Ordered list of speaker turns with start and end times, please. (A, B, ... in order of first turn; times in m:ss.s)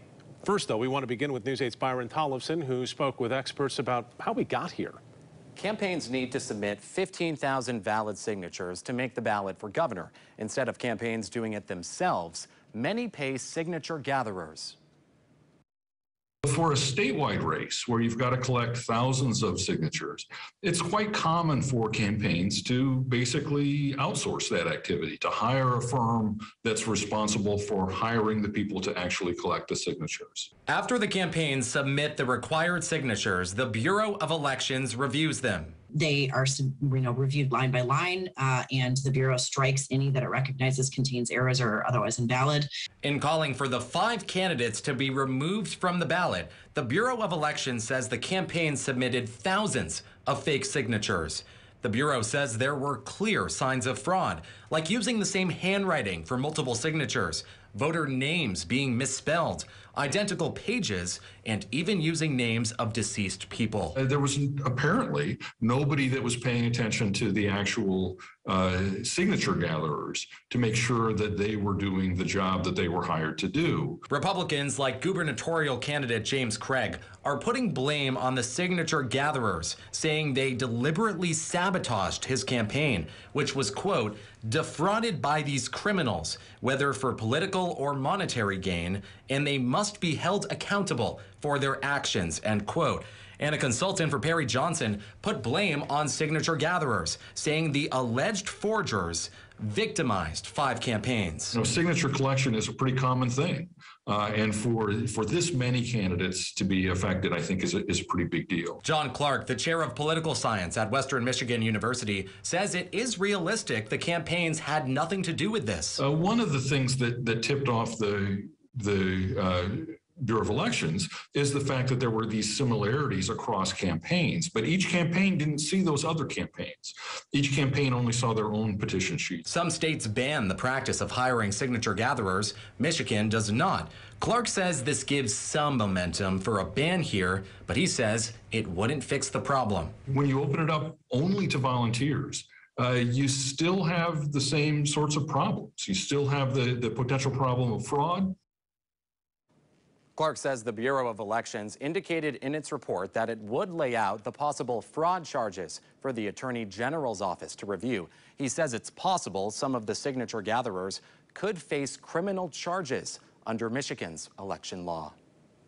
0:00.4-0:05.0 A
0:05.6-0:14.8 B
0:16.4-0:30.5 C
0:30.7-0:35.8 B
0:35.9-0:42.7 D
0:43.0-1:04.0 B
1:04.0-1:14.0 C
1:14.1-1:41.6 B
1:41.5-1:48.8 C
1:48.8-1:56.0 B
1:56.0-2:09.5 C
2:09.5-2:19.9 B
2:20.1-2:28.4 C
2:30.2-2:45.1 B